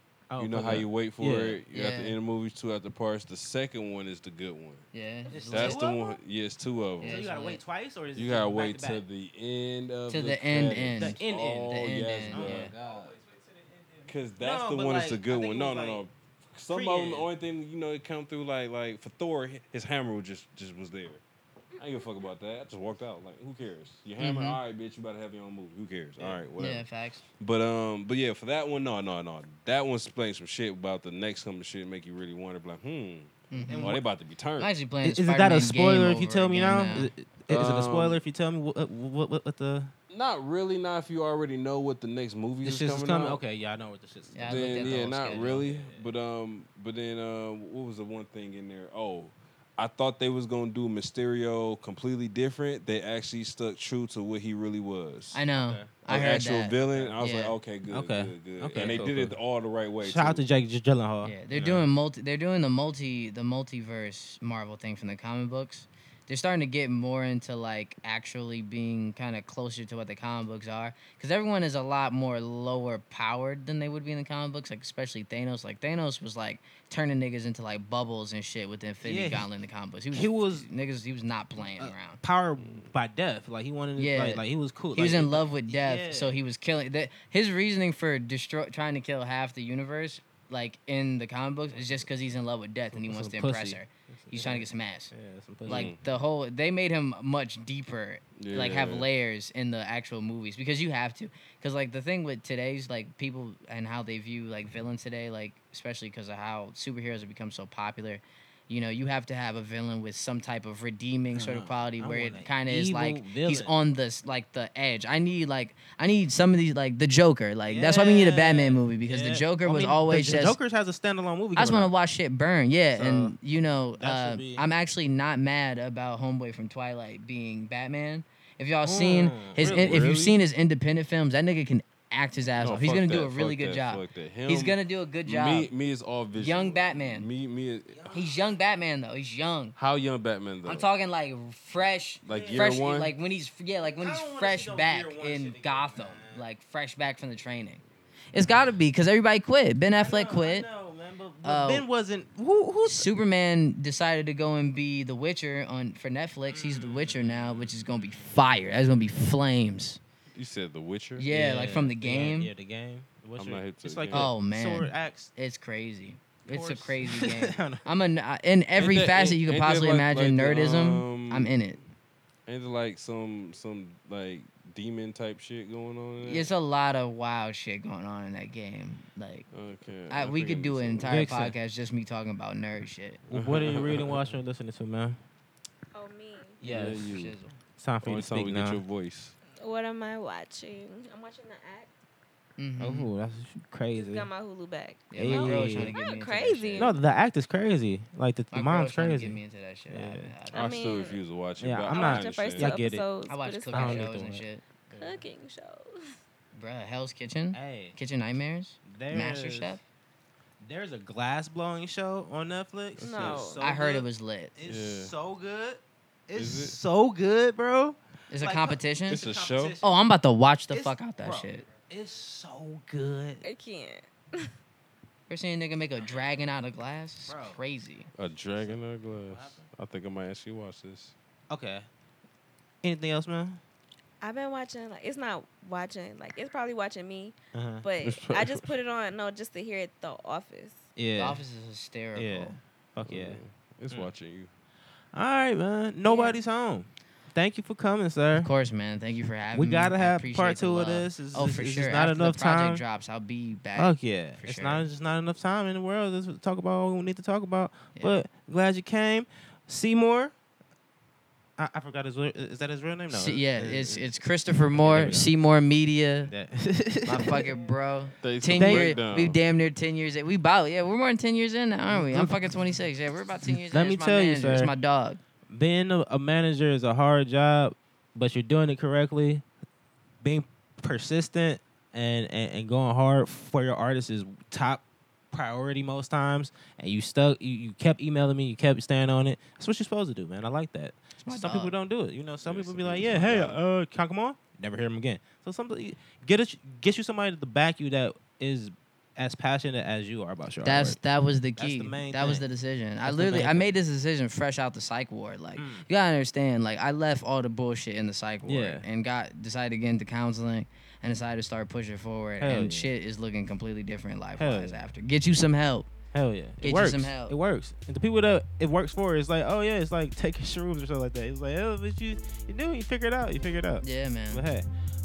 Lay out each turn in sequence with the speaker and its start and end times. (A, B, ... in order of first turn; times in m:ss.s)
0:00.3-0:01.6 A
0:00.4-0:04.8 B
0:01.7-0:02.2 C
0:04.9-0:05.8 C
0:05.3-0:06.1 A
0:05.5-0:07.2 B
0:07.0-0:07.6 C
0:07.0-0:09.0 A
0:08.2-0:12.7 B
0:10.1-0:12.7 C
0:10.6-0:13.2 A
0:14.1-0:21.2 B
0:14.4-0:16.0 A
0:16.7-0:17.3 A
0:21.8-0:26.8 B
0:24.2-0:24.6 C
0:26.6-0:27.2 C
0:27.4-0:34.7 B
0:33.5-0:34.0 C
0:33.5-0:34.0 A
0:34.6-0:37.1 C
0:35.0-0:39.9 A
0:37.5-0:38.2 B
0:40.1-0:43.4 B
0:42.6-0:46.1 A
0:44.3-0:45.5 C
0:44.4-0:55.4 B
0:55.3-0:57.6 C
0:55.5-0:55.9 A
0:56.0-1:00.4 B
0:56.9-0:57.2 A
0:57.9-0:59.4 A
1:00.0-1:01.7 A
1:01.2-1:22.2 C
1:01.5-1:01.8 B
1:19.0-1:19.5 A
1:20.1-1:20.7 A
1:21.8-1:26.4 A
1:22.6-1:22.9 B
1:24.0-1:24.4 C
1:24.9-1:35.1 C
1:32.9-1:35.9 A
1:35.7-1:36.0 B
1:35.7-2:00.6 C
1:38.4-1:39.1 B
1:51.3-1:53.7 A
1:57.7-2:01.9 A
2:01.6-2:15.7 C
2:02.9-2:03.4 A
2:04.0-2:04.7 A
2:08.8-2:10.1 A
2:09.6-2:10.4 B
2:12.6-2:18.1 B
2:16.4-2:17.3 C
2:17.9-2:18.5 A
2:18.1-2:19.7 C
2:19.8-2:20.9 B
2:20.6-2:27.8 C
2:22.2-2:23.1 B
2:22.3-2:22.9 A
2:23.8-2:26.4 A
2:28.3-2:30.7 C
2:30.0-2:33.1 A
2:31.4-2:31.8 C
2:32.8-2:40.0 C
2:36.5-2:37.8 A
2:40.3-2:41.3 B
2:41.2-2:42.5 C
2:41.3-2:45.3 A
2:43.4-2:44.3 B
2:44.1-2:51.8 C
2:46.4-2:47.8 A
2:48.8-2:51.6 B
2:52.5-2:56.5 B
2:56.2-2:59.5 C
2:59.5-3:01.2 B
3:00.1-3:03.2 C
3:01.0-3:01.6 A
3:03.3-3:04.4 B
3:03.3-3:05.2 A
3:05.9-3:06.6 D
3:06.6-3:07.1 A
3:06.6-3:07.4 B
3:07.0-3:07.6 C
3:07.8-3:08.8 A
3:08.0-3:09.3 B
3:09.6-3:11.9 D
3:12.6-3:13.1 C
3:12.8-3:14.3 A
3:13.9-3:17.0 D
3:15.1-3:17.0 C
3:15.1-3:16.0 A
3:16.8-3:19.4 A
3:18.5-3:20.9 C
3:19.9-3:20.3 A
3:20.5-3:21.2 D
3:20.5-3:22.8 B
3:21.6-3:23.0 A
3:21.9-3:24.1 D
3:23.3-3:24.6 C
3:23.7-3:25.2 A
3:24.9-3:26.1 D
3:26.5-3:29.8 C
3:27.5-3:28.0 A
3:28.8-3:29.8 A
3:30.6-3:40.0 A
3:33.0-3:33.6 B
3:33.0-3:33.6 D
3:33.6-3:34.5 C
3:34.6-3:35.1 B
3:36.3-3:36.8 B
3:38.3-3:39.2 C
3:39.1-3:39.8 B
3:39.8-3:41.6 C
3:40.7-3:43.5 A
3:43.4-3:44.5 D
3:45.3-3:48.1 C
3:47.3-3:47.6 A
3:48.2-3:51.1 B
3:48.6-3:49.7 A
3:51.5-3:51.8 A
3:52.8-3:53.6 A
3:54.2-4:00.8 D
3:57.5-3:57.8 A
3:58.0-3:58.8 B
4:01.0-4:01.4 A
4:01.2-4:02.6 C
4:02.2-4:04.1 A
4:03.0-4:04.5 B
4:05.1-4:08.5 A
4:06.0-4:06.4 D
4:08.4-4:14.8 C
4:09.5-4:12.8 A
4:13.8-4:20.3 A
4:21.6-4:24.1 A
4:23.1-4:26.3 C
4:24.7-4:25.3 A
4:24.9-4:25.2 B
4:26.3-4:27.5 A
4:27.0-4:35.2 C
4:28.2-4:29.4 B
4:28.5-4:29.0 A
4:31.9-4:32.7 A
4:33.4-4:34.7 A
4:35.5-4:39.4 A
4:40.2-5:01.0 A
4:51.2-4:51.7 C
4:52.4-4:53.6 B
5:00.6-5:15.9 C
5:01.6-5:02.4 A
5:03.0-5:03.7 A
5:05.6-5:05.9 A
5:08.4-5:08.8 A
5:12.4-5:12.9 A
5:14.4-5:14.9 A
5:16.1-5:24.6 A
5:16.6-5:17.3 C
5:23.8-5:24.4 C